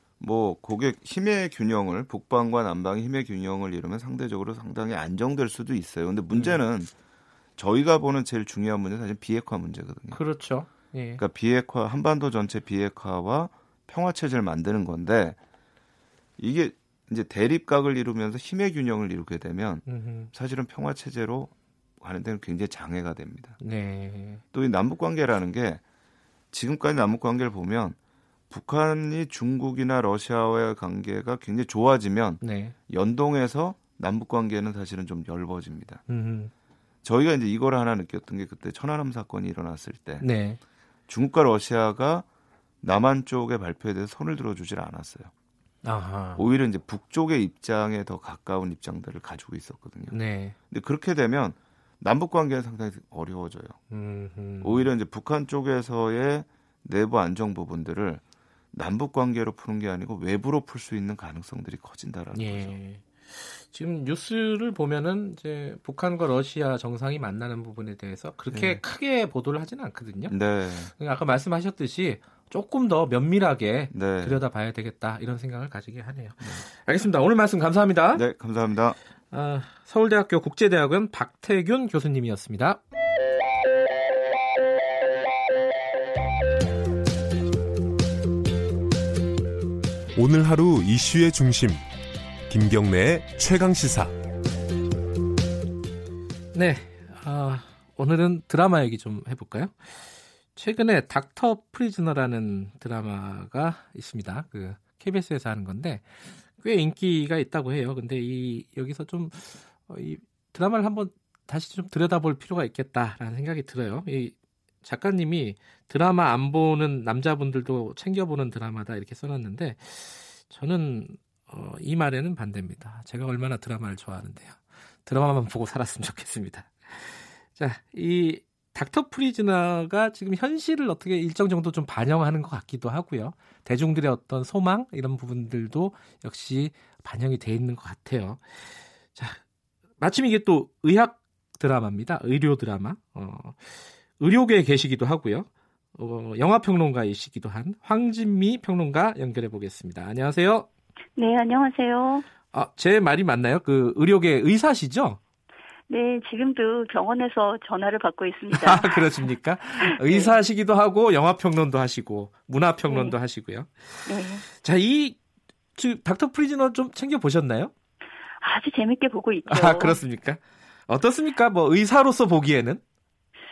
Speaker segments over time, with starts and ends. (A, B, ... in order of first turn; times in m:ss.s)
0:00.2-0:06.9 A
0:06.3-0:06.6 B
0:07.6-0:10.2 A
0:10.1-0:11.2 B
0:11.2-0:15.4 A
0:16.4-0:23.6 A
0:19.8-0:20.3 B
0:23.6-0:24.4 B
0:24.5-0:25.8 A
0:26.5-0:28.0 A
0:28.5-0:36.0 A
0:32.4-0:32.7 B
0:36.1-0:36.5 B
0:37.0-0:40.2 A
0:40.2-0:40.6 B
0:41.1-0:42.2 A
0:42.8-0:45.3 A
0:45.8-0:46.4 B
0:46.4-0:50.2 A
0:50.1-0:50.5 B
0:50.7-0:53.8 A
0:53.9-0:54.9 B
0:54.6-0:58.2 A
0:58.7-1:02.7 A
1:02.3-1:10.3 B
1:08.5-1:08.8 A
1:10.3-1:10.9 A
1:11.0-1:18.2 B
1:13.9-1:14.4 A
1:18.1-1:19.0 A
1:19.3-1:22.8 B
1:30.2-1:31.8 C
1:32.5-1:34.2 C
1:36.5-2:19.4 B
2:20.0-2:30.7 B
2:31.2-2:32.2 D
2:32.5-2:35.2 B
2:35.9-2:39.3 D
2:38.5-2:45.2 B
2:39.8-2:40.3 D
2:42.9-2:43.2 D
2:44.1-2:44.4 D
2:45.8-2:47.7 B
2:48.4-2:50.0 D
2:49.4-2:52.8 B